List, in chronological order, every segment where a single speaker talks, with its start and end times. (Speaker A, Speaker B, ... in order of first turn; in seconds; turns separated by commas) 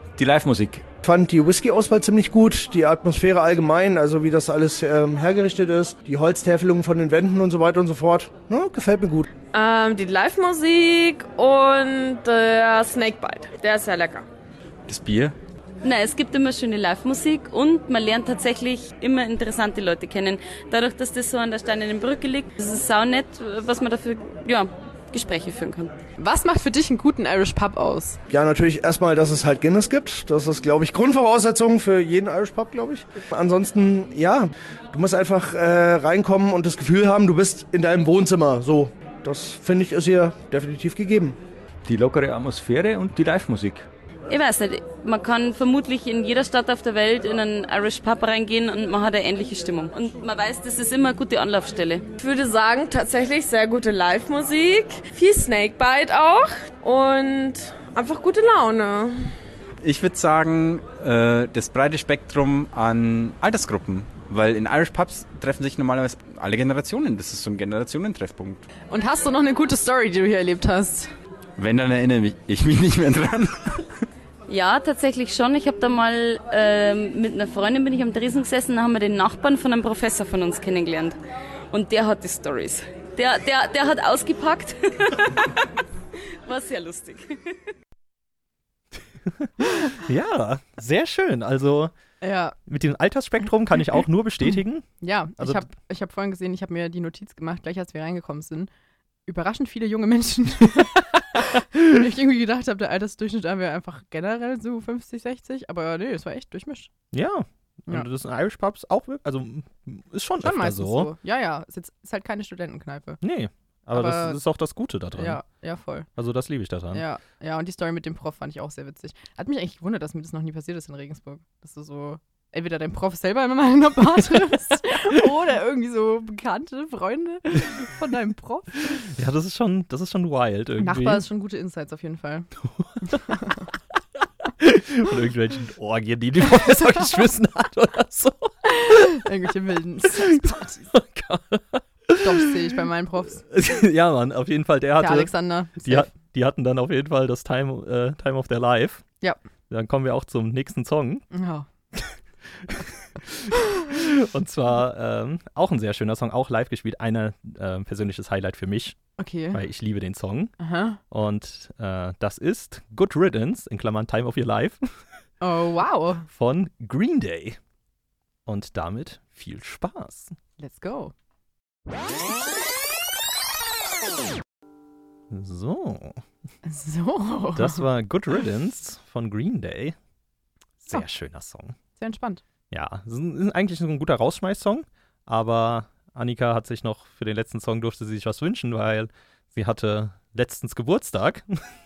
Speaker A: 0.1-0.8, Speaker B: 1.0-9.3, Speaker C: 9.5-14.2, Speaker D: 14.9-15.3, Speaker E: 15.8-25.9, Speaker F: 26.2-28.2, Speaker B: 28.3-41.4, Speaker A: 41.8-43.9, Speaker E: 44.3-52.1, Speaker C: 52.2-59.3, Speaker D: 59.8-68.6, Speaker F: 68.9-71.1, Speaker D: 71.6-73.9, Speaker E: 74.5-81.2, Speaker E: 81.7-85.5, Speaker E: 86.4-87.3, Speaker G: 89.3-91.9, Speaker F: 92.2-92.5, Speaker G: 92.7-94.9, Speaker F: 95.0-98.7, Speaker G: 95.4-95.7, Speaker F: 99.2-106.9, Speaker G: 107.1-111.1, Speaker F: 110.4-113.2, Speaker G: 113.2-115.4, Speaker F: 113.9-114.4, Speaker F: 115.2-116.1, Speaker G: 116.2-117.0, Speaker F: 116.9-129.0, Speaker G: 128.9-131.2, Speaker F: 130.8-132.5, Speaker G: 132.7-133.3, Speaker F: 133.0-133.6, Speaker G: 134.6-139.3, Speaker F: 138.8-140.9, Speaker G: 140.0-142.6, Speaker F: 142.2-143.4, Speaker G: 143.5-149.0, Speaker F: 145.0-146.1, Speaker G: 149.7-151.2, Speaker F: 151.3-151.7, Speaker G: 151.9-159.0, Speaker F: 159.2-159.6, Speaker G: 159.5-160.5, Speaker F: 160.6-161.0, Speaker G: 161.1-164.9, Speaker F: 165.4-166.3, Speaker G: 166.3-167.6, Speaker G: 168.4-170.3, Speaker F: 170.6-171.1, Speaker G: 175.3-176.2, Speaker F: 176.6-177.8, Speaker G: 177.5-179.9, Speaker G: 180.8-181.8, Speaker F: 182.0-182.4, Speaker G: 182.7-191.6